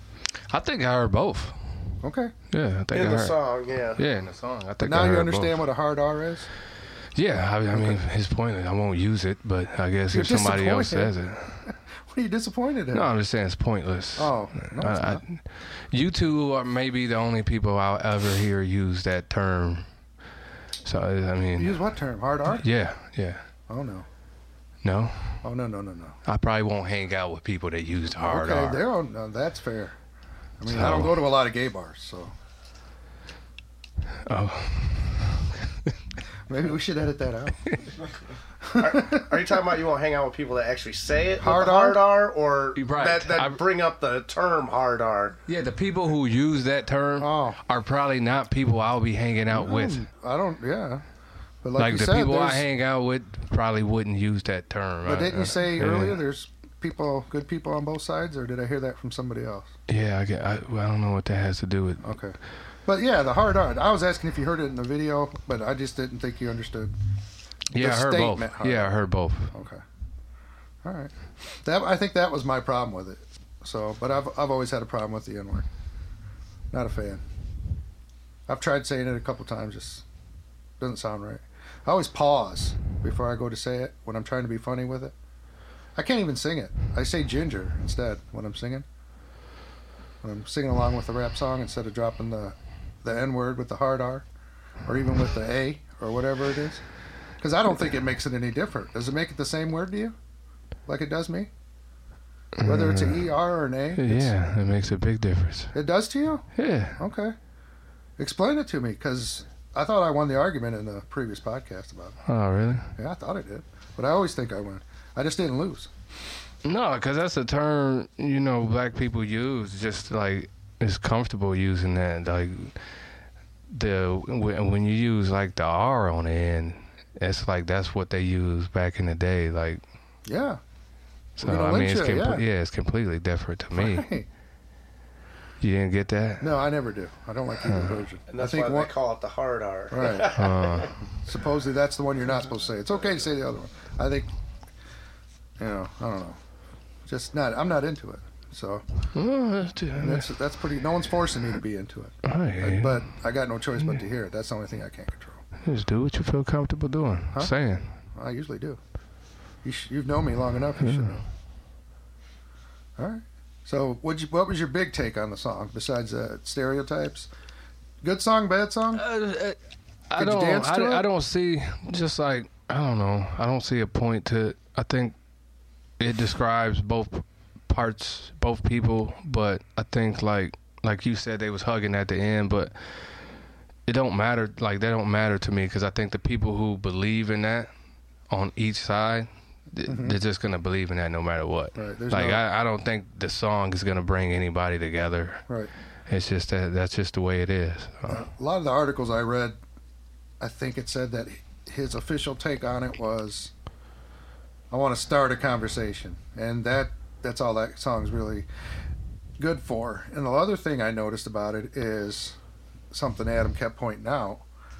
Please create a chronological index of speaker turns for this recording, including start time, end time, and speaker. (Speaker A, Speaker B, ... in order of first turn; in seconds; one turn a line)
Speaker A: 0.5-1.9
Speaker B: 2.0-2.3
Speaker A: 2.5-3.4
Speaker C: 2.9-4.0
Speaker A: 4.0-5.7
Speaker B: 4.8-6.5
Speaker A: 7.2-11.6
Speaker B: 7.7-8.0
Speaker B: 10.1-13.1
Speaker A: 12.9-19.9
Speaker B: 14.2-15.2
Speaker A: 20.9-21.8
Speaker B: 21.6-22.7
Speaker A: 22.5-23.4
Speaker B: 23.7-24.1
Speaker A: 24.8-25.4
Speaker B: 25.4-26.2
Speaker A: 26.3-28.8
Speaker B: 28.2-30.0
Speaker B: 30.6-32.3
Speaker A: 30.7-31.2
Speaker A: 34.3-36.0
Speaker B: 36.5-37.8
Speaker B: 38.6-39.3
Speaker C: 38.8-45.4
Speaker B: 41.4-42.0
Speaker A: 42.8-43.6
Speaker A: 45.5-50.0
Speaker B: 47.2-47.6
Speaker B: 49.5-51.0
Speaker B: 51.6-52.7
Speaker A: 51.8-56.2
Speaker B: 55.0-59.7
Speaker A: 59.9-62.1
Speaker B: 62.0-66.9
Speaker B: 67.7-69.0
Speaker A: 67.7-69.5
Speaker B: 69.5-69.8
Speaker B: 70.8-75.7
Speaker B: 76.7-77.2
Speaker B: 78.5-80.0
Speaker B: 80.8-85.2
Speaker B: 86.0-88.9
Speaker B: 90.2-94.3
Speaker B: 94.8-96.8
Speaker B: 97.4-100.2
Speaker B: 100.9-101.5
Speaker A: 102.6-103.3
Speaker B: 102.6-104.3
Speaker A: 104.0-105.7
Speaker B: 105.7-107.4
Speaker A: 106.6-107.0
Speaker B: 108.2-112.2
Speaker A: 112.3-112.9
Speaker B: 113.0-115.9
Speaker A: 116.6-122.9
Speaker A: 123.7-129.8
Speaker B: 130.3-130.6
Speaker A: 131.4-134.1
Speaker B: 131.4-132.4
Speaker B: 133.7-134.3
Speaker A: 135.6-136.5
Speaker B: 136.4-138.9
Speaker A: 137.6-138.0
Speaker C: 138.3-140.9
Speaker B: 139.9-140.4
Speaker A: 140.3-140.9
Speaker B: 141.1-144.3
Speaker B: 145.6-146.4
Speaker B: 147.1-148.8
Speaker A: 149.1-150.3
Speaker B: 150.0-155.4
Speaker A: 152.2-153.0
Speaker A: 155.7-158.0
Speaker B: 158.1-158.8
Speaker B: 159.6-161.2
Speaker A: 160.8-161.2
Speaker B: 163.0-167.3
Speaker B: 168.0-169.1
Speaker A: 168.9-169.6
Speaker A: 170.1-175.2
Speaker B: 170.2-171.1
Speaker A: 176.0-183.2
Speaker A: 183.9-187.7
Speaker A: 188.3-195.4
Speaker B: 189.8-190.2
Speaker B: 191.8-192.4
Speaker A: 196.1-198.2
Speaker B: 198.1-199.6
Speaker B: 200.4-203.5
Speaker B: 204.7-208.5
Speaker B: 209.4-212.4
Speaker B: 212.9-214.4